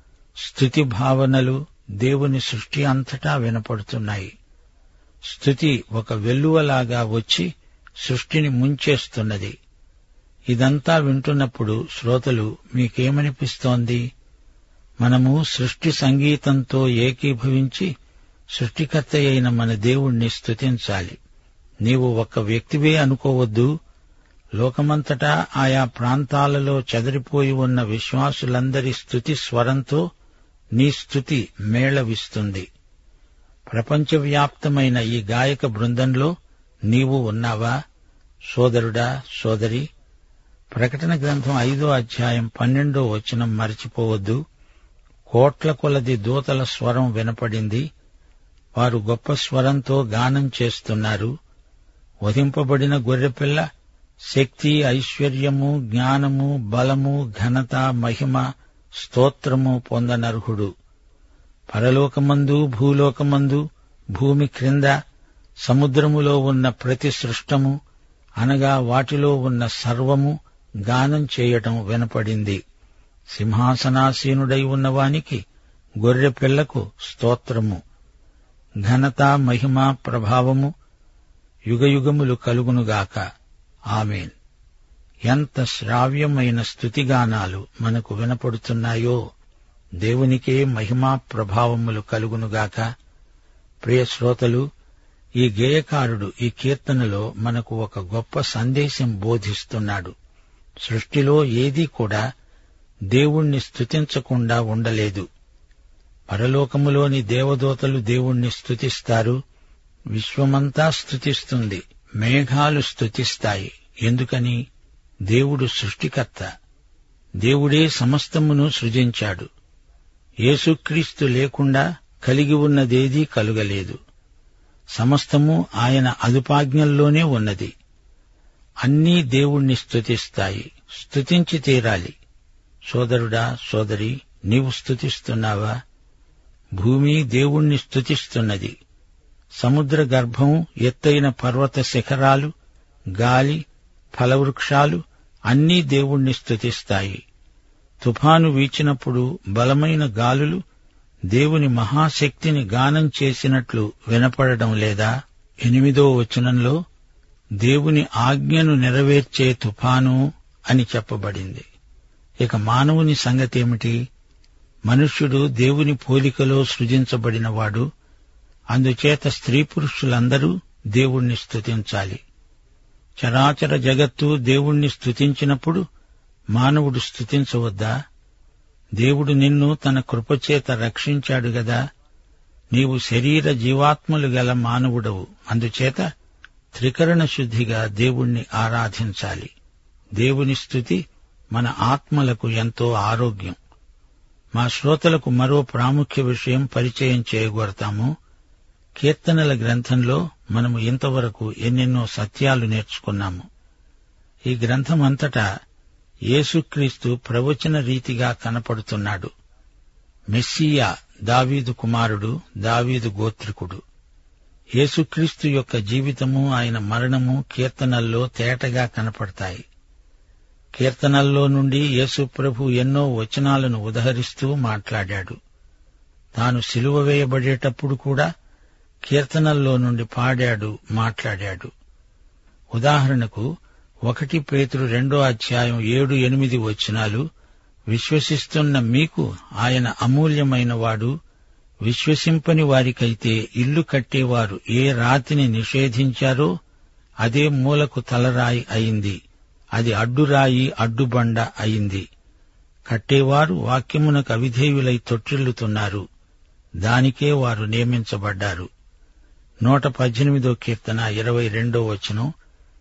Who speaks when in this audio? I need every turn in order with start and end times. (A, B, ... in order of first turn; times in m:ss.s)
0:00.4-0:04.3 A
0:05.3-0:07.5 A
0:08.0-0:09.5 A
0:10.5-0:14.0 A
0:15.0-0:17.9 A
0:18.6-0:21.2 A
0:21.8-0:23.7 A
0:24.6-0:30.0 A
0:30.8-0:32.7 A
0:33.7-0:36.3 A
0:36.9-0:37.7 A
0:38.5-0:39.9 A
0:40.7-0:44.4 A
0:45.3-0:47.8 A
0:48.8-0:51.3 A
0:52.2-0:53.6 A
0:54.3-0:58.4 A
0:59.0-1:00.7 A
1:01.7-1:03.6 A
1:04.2-1:05.0 A
1:05.6-1:07.8 A
1:08.4-1:10.4 A
1:10.9-1:12.6 A
1:13.3-1:15.4 A
1:16.0-1:17.8 A
1:18.8-1:20.7 A
1:21.7-1:23.2 A
1:23.9-1:24.4 A
1:25.3-1:29.2 A
1:30.0-1:32.9 A
1:33.8-1:34.6 A
1:35.4-1:40.1 A
1:40.8-1:42.2 A
1:43.1-1:45.3 A
1:46.3-1:49.4 A
1:50.1-1:54.6 A
1:55.3-1:56.5 A
1:57.4-1:59.5 A
2:00.5-2:04.0 A
2:05.0-2:07.7 A
2:08.8-2:12.1 A
2:12.9-2:15.7 A
2:16.8-2:18.7 A
2:19.6-2:22.5 A
2:23.2-2:23.6 A
2:24.2-2:27.2 A
2:28.0-2:30.6 A
2:31.3-2:35.1 A
2:35.6-2:36.8 A
2:37.6-2:41.7 A
2:42.4-2:44.0 A
2:44.9-2:47.8 A
2:48.7-2:52.2 A
2:53.2-2:55.8 A
2:56.6-2:57.9 A
2:59.0-3:01.8 A
3:02.7-3:06.0 A
3:06.7-3:09.5 A
3:10.2-3:13.6 A
3:14.6-3:18.1 A
3:19.0-3:23.4 A
3:24.5-3:25.4 A
3:26.3-3:29.3 A
3:30.3-3:33.8 A
3:34.8-3:39.6 A
3:40.8-3:45.4 A
3:46.4-3:48.3 A
3:49.1-3:51.7 A
3:52.8-3:53.5 A
3:54.1-3:57.2 A
3:57.9-4:01.1 A
4:01.9-4:06.5 A
4:07.2-4:09.2 A
4:09.8-4:12.0 A
4:12.9-4:16.0 A
4:16.8-4:18.7 A
4:19.6-4:22.3 A